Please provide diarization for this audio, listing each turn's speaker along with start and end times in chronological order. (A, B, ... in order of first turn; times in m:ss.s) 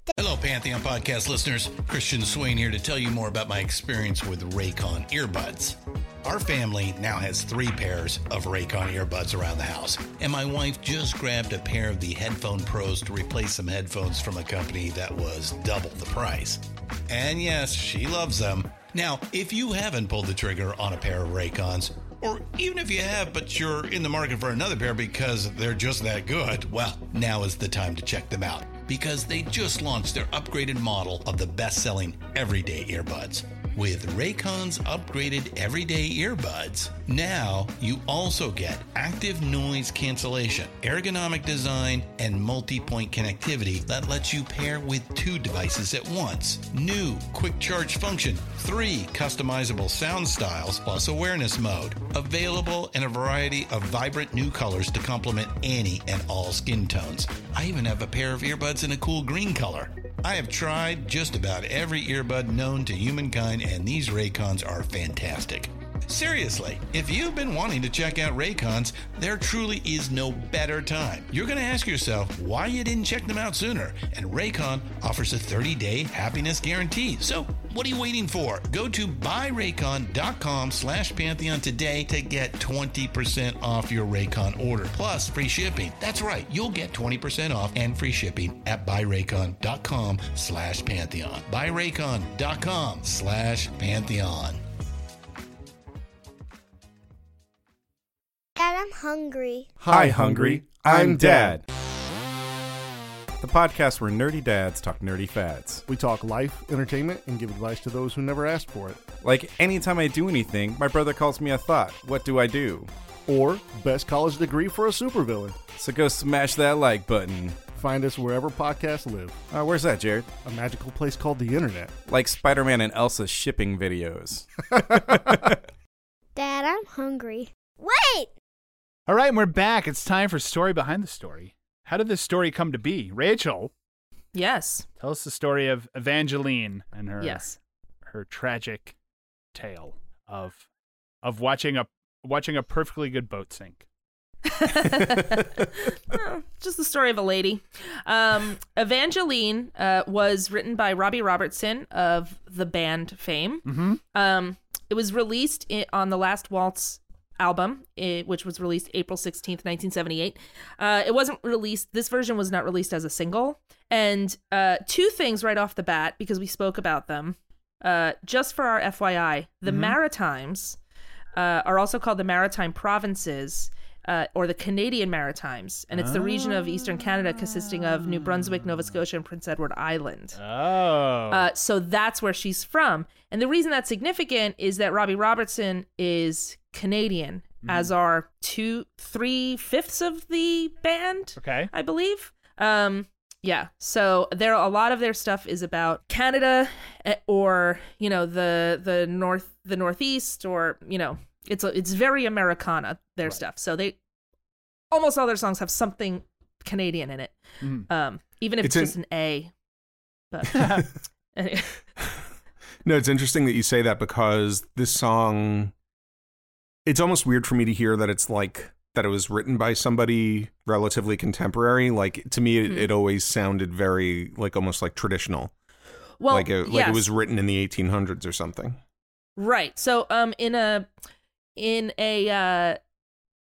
0:00.1-1:34.6 A
1:38.6-1:39.7 B
1:39.8-1:41.6 C
1:39.8-1:41.6 D
1:43.4-1:45.8 D
1:45.9-1:49.1 C
1:49.2-1:52.9 D
1:53.3-1:55.6 C
1:55.8-1:57.6 D
1:57.7-1:59.4 C
1:59.5-2:00.3 D
2:00.4-2:01.9 C
2:02.1-2:05.6 D
2:06.4-2:08.3 B
2:09.1-2:13.7 E
2:14.3-2:14.8 F
2:15.0-2:17.4 E
2:17.2-2:17.6 F
2:18.0-2:18.9 E
2:19.5-2:20.6 E
2:21.2-2:23.8 E
2:24.4-2:50.8 F
2:33.6-2:34.0 E
2:49.6-2:50.0 E
2:51.3-3:00.4 F
2:55.9-2:57.2 E
2:57.8-2:58.7 E
3:00.4-3:01.5 E
3:01.3-3:24.0 F
3:07.6-3:07.9 E
3:11.4-3:11.7 E
3:24.9-3:29.5 F
3:27.6-3:27.9 E
3:28.6-3:28.9 G
3:30.3-3:31.8 F
3:30.5-3:30.8 E
3:30.6-3:30.8 G
3:32.8-3:35.7 G
3:36.8-3:45.5 G
3:46.2-3:47.1 F
3:46.3-3:48.8 G
3:49.4-3:50.9 F
3:51.6-3:52.8 F